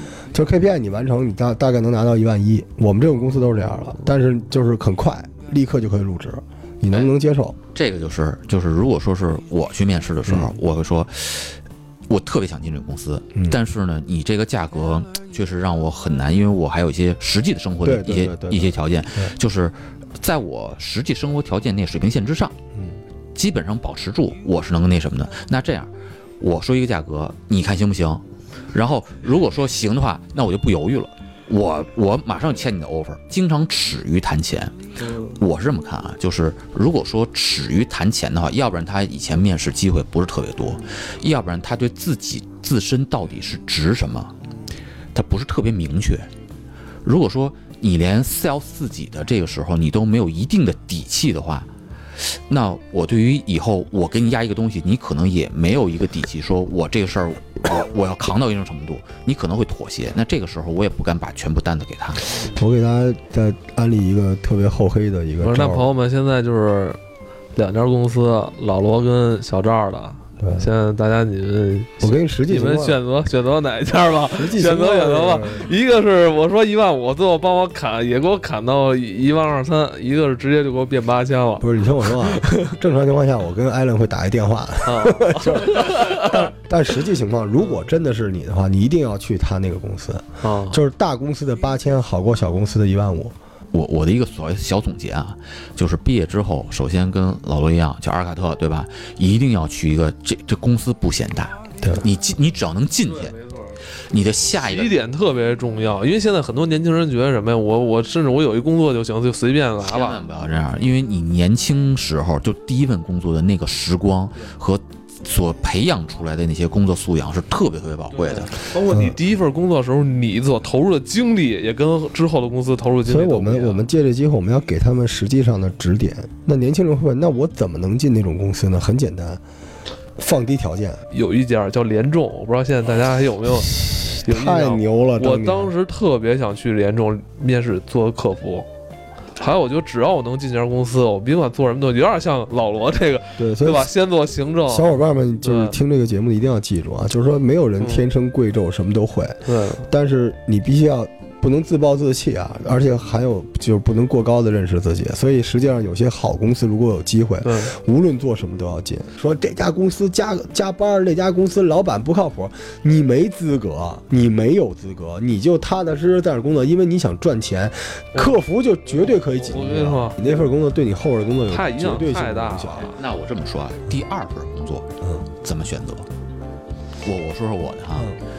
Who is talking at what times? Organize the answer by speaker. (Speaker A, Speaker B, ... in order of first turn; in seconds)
Speaker A: 0.3-7.6, 10.3-10.5, 17.8-19.3, 22.7-23.0, 62.3-65.9, 70.4-70.7, 72.0-73.0, 74.3-75.7, 81.6-93.3, 118.8-119.2, 123.0-129.4, 130.2-131.0, 133.8-135.7, 143.4-143.9, 144.7-172.9
Speaker B: 7.7-22.5, 23.3-44.4, 45.1-46.3, 47.0-62.3, 93.7-103.3, 104.1-104.9, 109.8-118.5, 172.8-174.9, 175.4-176.1, 177.0-178.2
Speaker C: 65.4-67.0, 67.5-82.7, 84.8-86.5, 90.4-90.8, 103.3-103.6, 104.5-110.2, 118.2-123.8, 131.1-138.7, 139.4-145.8, 149.4-149.9, 157.4-157.8, 169.3-170.2, 171.5-173.0